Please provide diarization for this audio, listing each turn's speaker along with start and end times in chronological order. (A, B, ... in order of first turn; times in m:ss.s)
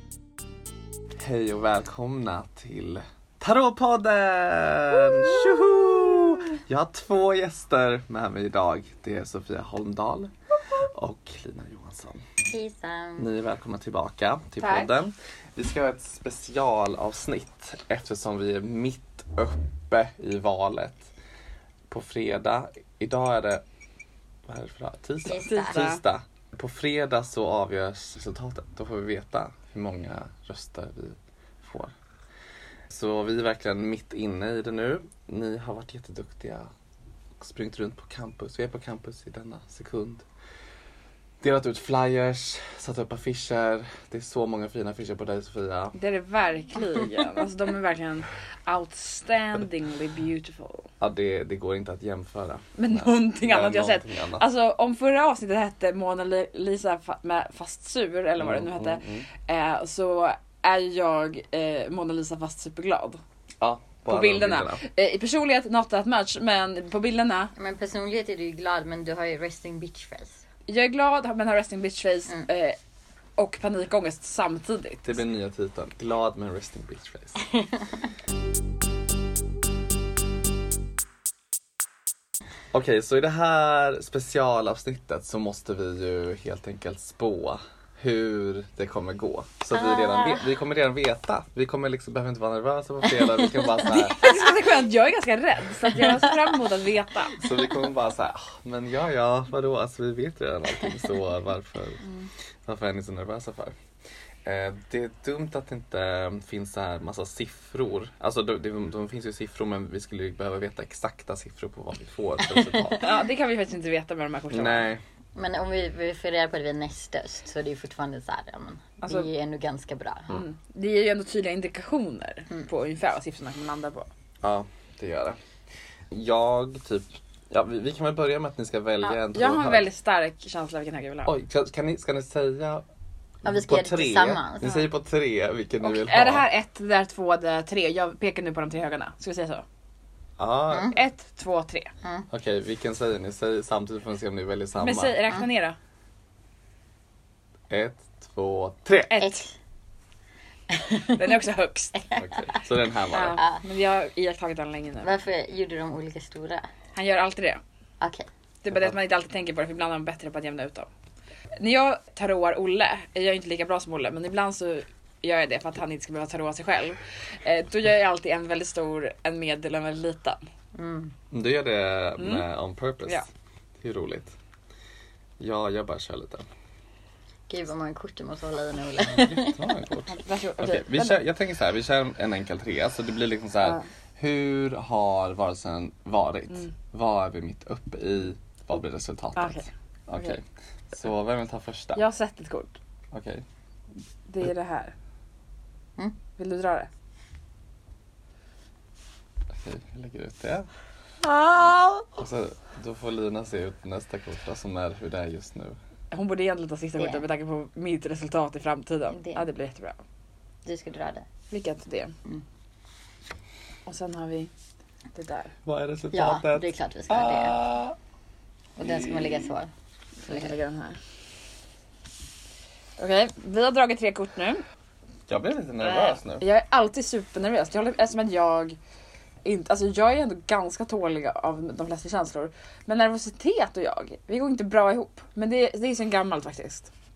0:01.2-0:12.2 A
0:12.5-0:13.3 B
0:13.2-0:21.1 A
0:14.6-0:14.9 C
0:21.9-0:23.6 A
0:24.5-0:31.9 A
0:25.2-0:25.8 B
0:25.3-0:26.0 C
0:32.9-0:36.7 A
0:37.4-0:40.2 A
0:41.4-0:45.9 A
0:45.9-0:50.9 C
0:51.0-0:54.4 A
0:52.8-1:03.2 C
0:58.4-0:59.3 A
1:03.6-1:04.8 A
1:04.1-1:07.5 C
1:07.6-1:10.4 B
1:10.7-1:12.8 C
1:13.4-1:15.2 C
1:15.0-1:17.4 A
1:17.5-1:17.8 B
1:22.7-1:34.2 A
1:29.7-1:30.4 B
1:33.8-1:37.4 C
1:37.4-1:42.0 A
1:42.6-1:43.7 A
1:44.4-1:53.0 A
1:52.5-1:52.9 B
1:53.0-1:54.8 C
1:54.5-1:55.0 A
1:55.3-2:00.3 B
1:59.0-1:59.3 C
2:00.3-2:04.1 C
2:04.4-2:05.4 A
2:06.1-2:09.8 A
2:09.3-2:11.3 C
2:11.2-2:12.8 A
2:13.4-2:14.9 B
2:13.4-2:16.4 A
2:15.8-2:19.6 C
2:20.4-2:20.9 A
2:20.9-2:21.9 C
2:22.3-2:25.2 A
2:24.8-2:25.8 C
2:27.7-2:29.2 A
2:29.1-2:29.4 C
2:29.2-2:29.5 B
2:30.7-2:31.3 B
2:31.1-2:32.0 C
2:32.0-2:32.4 B
2:32.2-2:33.4 A
2:33.1-2:35.1 C
2:33.4-2:33.6 B
2:35.0-2:36.6 B
2:37.0-2:37.6 C
2:38.0-2:38.3 B
2:38.6-2:40.9 C
2:41.6-2:50.4 C
2:50.7-2:51.1 B
2:51.3-2:53.2 A
2:52.2-2:52.4 C
2:53.8-2:54.3 A
2:55.4-2:56.4 A
2:57.5-2:59.6 B
2:59.1-3:12.0 A
3:00.1-3:01.2 C
3:09.4-3:10.4 C
3:12.0-3:12.8 C
3:13.1-3:13.4 A
3:14.3-3:14.9 C
3:16.4-3:16.9 C
3:19.5-3:20.7 A
3:21.2-3:22.1 C
3:22.2-3:25.8 A
3:26.1-3:30.0 C
3:29.1-3:29.4 B
3:30.6-3:31.3 B
3:31.5-3:32.1 C
3:33.8-3:34.5 C
3:35.1-3:35.5 C
3:35.6-3:37.9 A
3:36.1-3:37.6 B
3:38.8-3:39.7 B
3:38.8-3:39.4 A
3:40.2-3:41.0 C
3:43.0-3:44.6 C
3:45.3-3:46.4 A
3:45.8-3:48.8 C
3:49.4-3:56.9 C